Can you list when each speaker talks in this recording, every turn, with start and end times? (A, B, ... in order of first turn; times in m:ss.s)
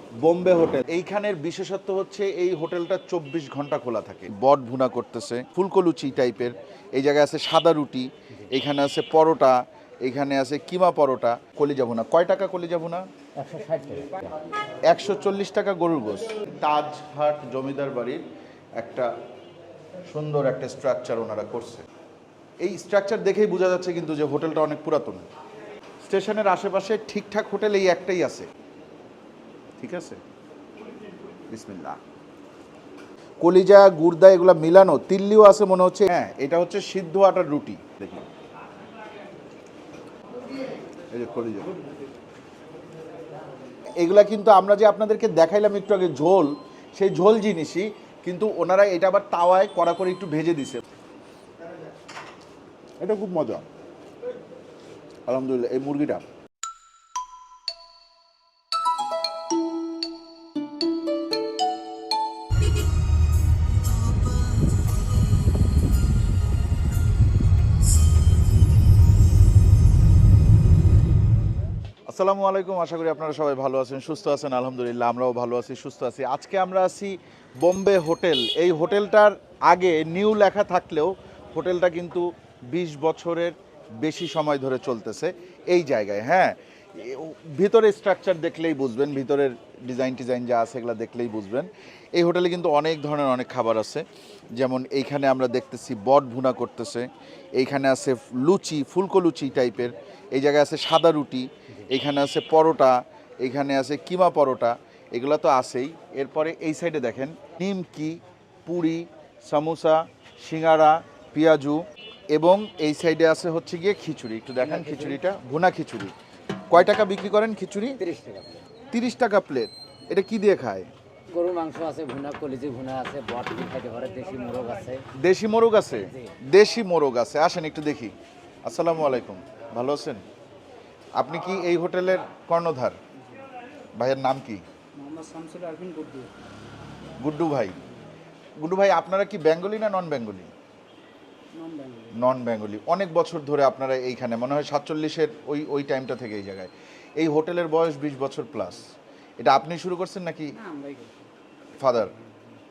0:00.2-0:13.1 A
0:13.4-0:14.4 B
0:14.9-0:18.2 A
0:18.8-0:19.2 A
0:20.1-0:21.8 A
0:22.6-0:25.3 A
0:26.0-0:28.5 A
0:29.8-0:30.2 A
0:31.5-0:32.0 A
0:33.4-0:38.3 A
0:41.1-0:41.7 A
0:44.0-0:50.8 A
0:53.0-0:53.7 A
0:55.3-0:56.2 A
1:12.1-1:34.0 A
1:34.6-1:56.1 A
1:54.6-1:55.2 B
1:56.7-1:58.0 A
1:58.0-1:58.7 B
1:58.9-2:00.9 A
2:01.3-2:05.0 B
2:05.2-2:08.1 A
2:06.1-2:06.4 B
2:08.6-2:10.2 A
2:11.2-2:13.0 A
2:14.0-2:14.6 A
2:15.0-2:16.3 C
2:17.2-2:17.8 A
2:18.6-2:20.5 A
2:21.5-2:22.2 C
2:22.1-2:28.9 A
2:29.4-2:30.6 A
2:30.6-2:31.2 C
2:31.8-2:32.2 A